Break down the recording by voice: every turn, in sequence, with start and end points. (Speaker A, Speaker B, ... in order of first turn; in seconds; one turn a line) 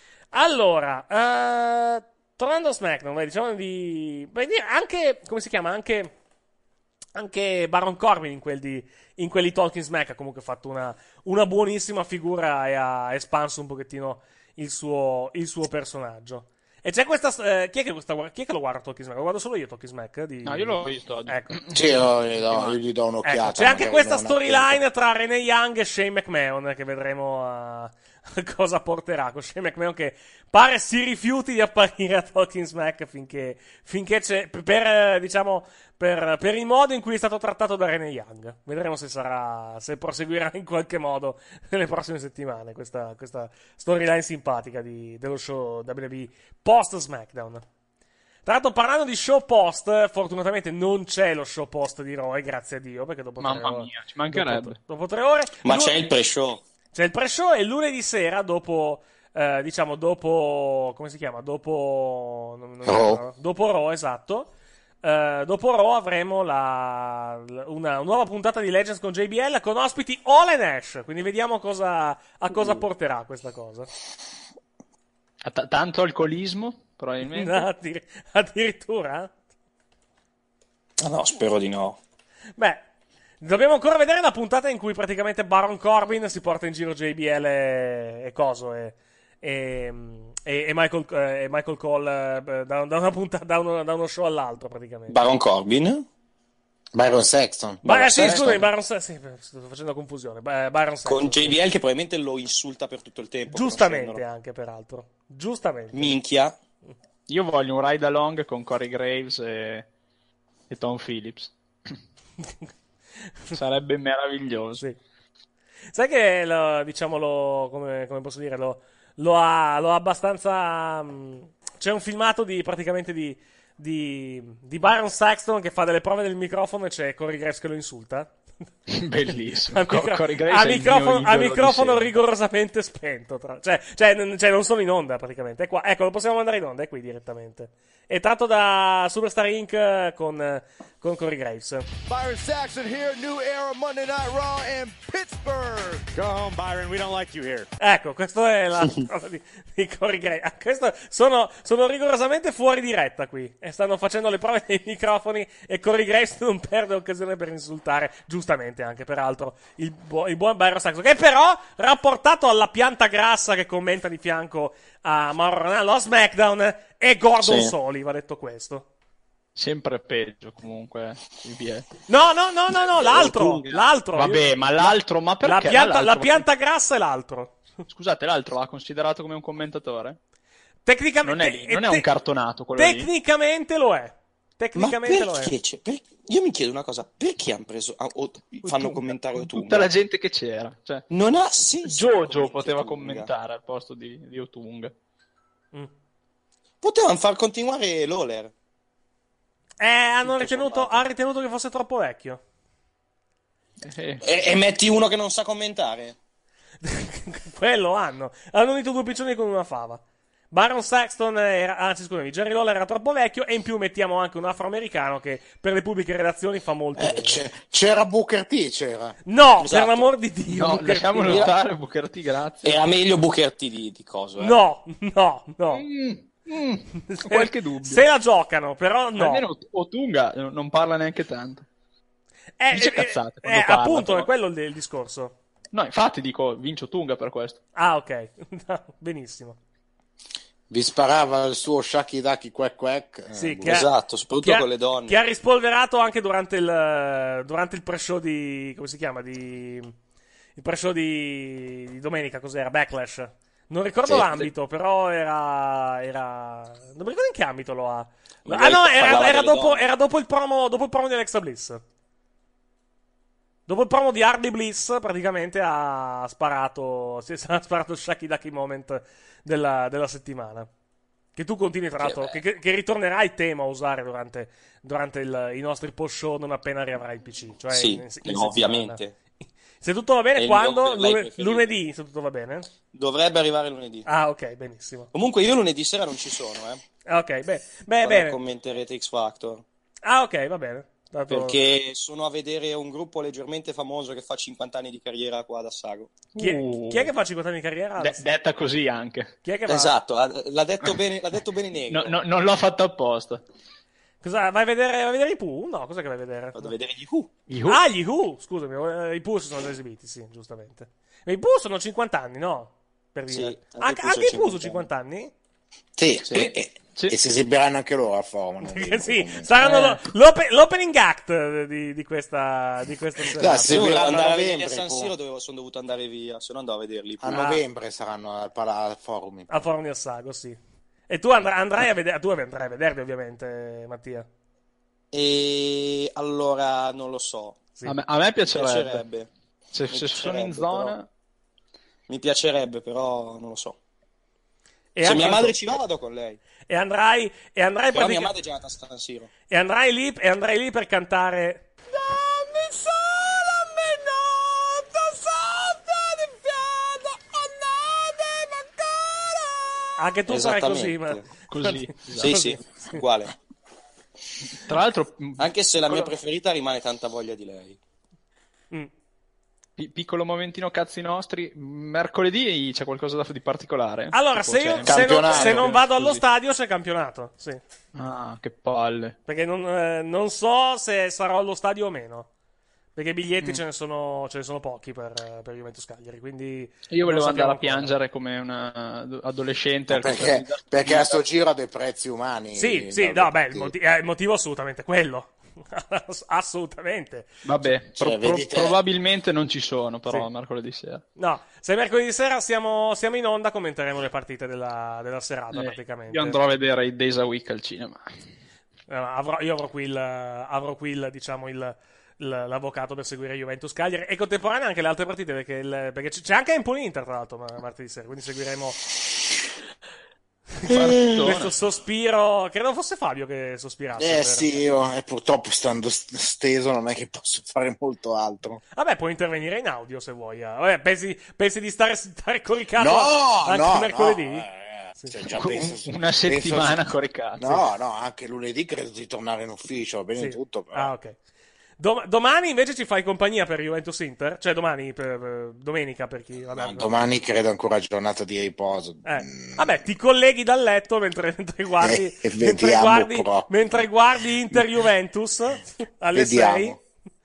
Speaker A: 0.3-6.1
Speaker A: 7.2-21.6
Speaker B: 20.4-22.8
Speaker C: 21.7-24.8
Speaker A: 23.2-47.6
Speaker A: 48.5-56.1
Speaker B: 53.4-54.8
Speaker D: 55.6-56.6
Speaker A: 56.9-64.5
Speaker C: 62.9-63.2
Speaker A: 65.0-73.9
Speaker B: 75.4-77.7
Speaker A: 77.2-79.3
Speaker D: 81.0-82.0
Speaker A: 82.6-82.8
Speaker A: 83.4-95.2
Speaker D: 95.1-96.1
Speaker C: 96.9-98.6
Speaker D: 97.8-98.6
Speaker A: 97.9-101.5
Speaker D: 101.0-104.2
Speaker A: 103.5-106.2
Speaker D: 105.9-106.6
Speaker B: 107.3-109.9
Speaker B: 110.7-111.5
Speaker B: 113.5-114.8
Speaker A: 115.9-128.3
Speaker B: 128.9-132.1
Speaker A: 129.7-141.9
Speaker E: 142.1-147.7
Speaker A: 147.8-168.9
Speaker D: 167.4-167.7
Speaker B: 169.6-171.9
Speaker A: 172.1-177.6
Speaker D: 173.0-173.8
Speaker B: 174.2-176.5
Speaker B: 177.9-180.2
Speaker A: 180.9-182.1
Speaker B: 181.2-183.1
Speaker A: 182.8-185.5
Speaker D: 184.8-189.9
Speaker B: 188.7-191.1
Speaker D: 191.1-193.3
Speaker B: 191.8-194.9
Speaker D: 196.8-198.5
Speaker A: 199.8-202.4
Speaker D: 200.2-201.0
Speaker B: 203.8-204.2
Speaker D: 204.2-206.2
Speaker A: 206.8-217.4
Speaker C: 217.0-219.2
Speaker A: 219.3-221.5
Speaker D: 219.6-220.1
Speaker B: 220.5-222.8
Speaker D: 221.3-221.6
Speaker D: 222.6-224.6
Speaker A: 224.4-225.9
Speaker B: 225.7-228.1
Speaker A: 227.1-229.5
Speaker B: 229.2-231.7
Speaker A: 232.6-235.3
Speaker B: 232.7-234.3
Speaker B: 235.7-237.6
Speaker A: 237.8-239.6
Speaker C: 240.7-243.8
Speaker A: 243.3-243.9
Speaker D: 243.7-245.2
Speaker A: 244.4-249.9
Speaker A: 250.6-261.8
Speaker D: 254.1-254.5
Speaker D: 258.5-259.9
Speaker A: 263.7-270.7
Speaker A: 271.4-279.0
Speaker D: 272.0-272.4
Speaker D: 277.7-279.1
Speaker A: 279.8-282.7
Speaker D: 280.4-281.7
Speaker D: 282.9-284.1
Speaker A: 284.1-285.1
Speaker D: 285.1-286.8
Speaker A: 287.1-288.4
Speaker D: 288.0-289.6
Speaker A: 290.0-291.6
Speaker D: 291.3-296.2
Speaker B: 296.4-297.1
Speaker A: 296.4-298.2
Speaker B: 298.0-299.3
Speaker A: 299.4-299.9
Speaker D: 299.7-302.2
Speaker B: 301.9-303.4
Speaker A: 304.2-306.7
Speaker D: 306.6-307.3
Speaker B: 307.5-307.8
Speaker A: 307.7-315.3
Speaker D: 313.3-314.9
Speaker C: 316.0-319.5
Speaker B: 316.3-317.2
Speaker A: 318.6-324.1
Speaker B: 319.6-320.0
Speaker C: 323.4-325.1
Speaker D: 323.7-327.3
Speaker C: 327.2-329.5
Speaker A: 327.3-327.6
Speaker A: 329.5-330.6
Speaker A: 331.1-334.3
Speaker D: 335.1-337.6
Speaker B: 337.9-339.1
Speaker D: 338.5-339.3
Speaker B: 339.7-341.1
Speaker D: 339.9-341.0
Speaker D: 342.1-343.8
Speaker A: 344.9-345.6
Speaker D: 345.0-346.4
Speaker A: 346.7-348.3
Speaker D: 347.9-349.3
Speaker A: 349.5-351.6
Speaker E: 351.9-359.6
Speaker A: 360.0-363.0
Speaker D: 360.3-361.3
Speaker B: 361.5-362.4
Speaker D: 362.1-363.3
Speaker B: 364.6-366.1
Speaker D: 365.4-367.8
Speaker B: 369.8-376.2
Speaker A: 374.1-377.6
Speaker C: 374.9-375.7
Speaker B: 377.9-379.2
Speaker A: 379.3-382.3
Speaker A: 383.0-387.9
Speaker B: 386.9-391.2
Speaker C: 389.9-393.7
Speaker A: 392.6-397.4
Speaker B: 397.4-401.0
Speaker C: 398.0-398.8
Speaker A: 401.2-406.4
Speaker B: 405.5-408.0
Speaker A: 408.9-418.8
Speaker A: 420.6-424.6
Speaker B: 420.7-421.5
Speaker C: 424.0-428.6
Speaker A: 428.8-434.5
Speaker C: 432.8-436.8
Speaker B: 435.3-437.7
Speaker C: 437.4-440.9
Speaker A: 440.2-441.2
Speaker A: 441.8-447.0
Speaker C: 446.5-449.8
Speaker A: 449.1-456.8
Speaker C: 451.8-453.5
Speaker C: 456.1-456.8